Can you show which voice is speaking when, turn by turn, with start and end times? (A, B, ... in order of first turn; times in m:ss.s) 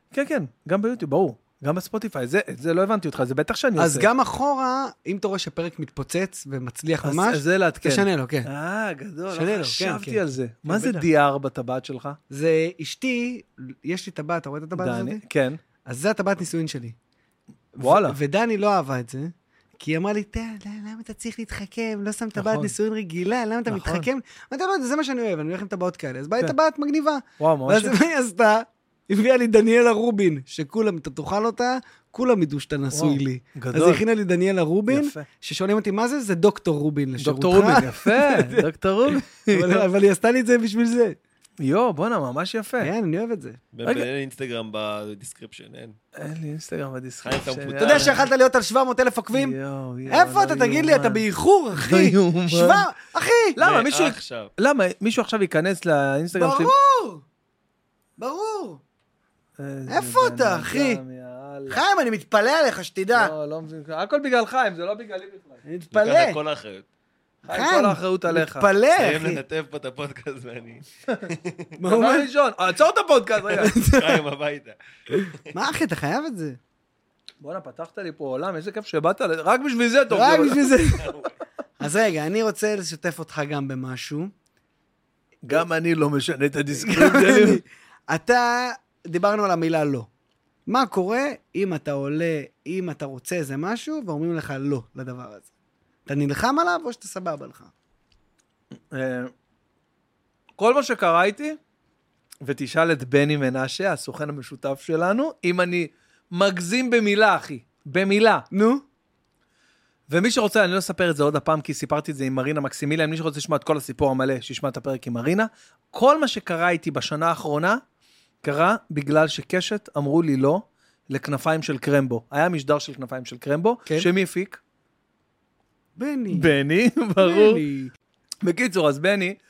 0:00.1-0:04.1 A
0:03.8-0:08.5 B
0:07.0-0:12.2 A
0:09.3-0:11.1 B
0:12.3-0:15.2 B
0:14.8-0:15.6 A
0:15.8-0:17.0 B
0:17.7-0:38.6 B
0:17.8-0:18.2 A
0:22.3-0:22.7 A
0:23.7-0:24.1 A
0:27.4-0:28.0 A
0:32.9-0:34.0 A
0:34.9-0:35.3 A
0:37.2-0:39.8 A
0:39.4-0:41.2 B
0:41.6-0:42.9 A
0:42.8-0:43.6 B
0:43.7-0:46.0 C
0:43.8-0:44.1 A
0:46.2-0:48.3 A
0:47.2-0:48.3 C
0:47.8-0:53.6 B
0:49.3-0:52.8 A
0:53.6-0:56.7 A
0:53.6-0:54.5 C
0:56.3-0:57.2 B
0:58.2-0:58.8 B
0:59.6-1:01.8 A
0:59.9-1:01.0 B
1:01.7-1:03.3 B
1:03.1-1:05.6 A
1:05.6-1:06.4 B
1:05.9-1:06.8 C
1:07.4-1:09.4 B
1:07.4-1:08.7 A
1:09.0-1:11.6 C
1:11.8-1:12.3 B
1:11.8-1:13.7 A
1:13.6-1:14.2 B
1:13.7-1:14.8 C
1:15.1-1:16.6 B
1:17.4-1:20.8 A
1:20.1-1:21.1 B
1:21.0-1:21.3 C
1:21.8-1:24.3 B
1:25.4-1:27.6 A
1:26.8-1:30.1 B
1:30.7-1:35.5 B
1:36.0-1:37.7 B
1:38.9-1:39.3 A
1:40.6-1:41.6 A
1:42.4-1:48.4 A
1:48.5-1:48.8 B
1:50.1-1:57.8 A
1:58.4-2:04.6 A
2:06.0-2:06.5 B
2:06.3-2:07.6 A
2:07.2-2:07.9 B
2:08.4-2:09.4 A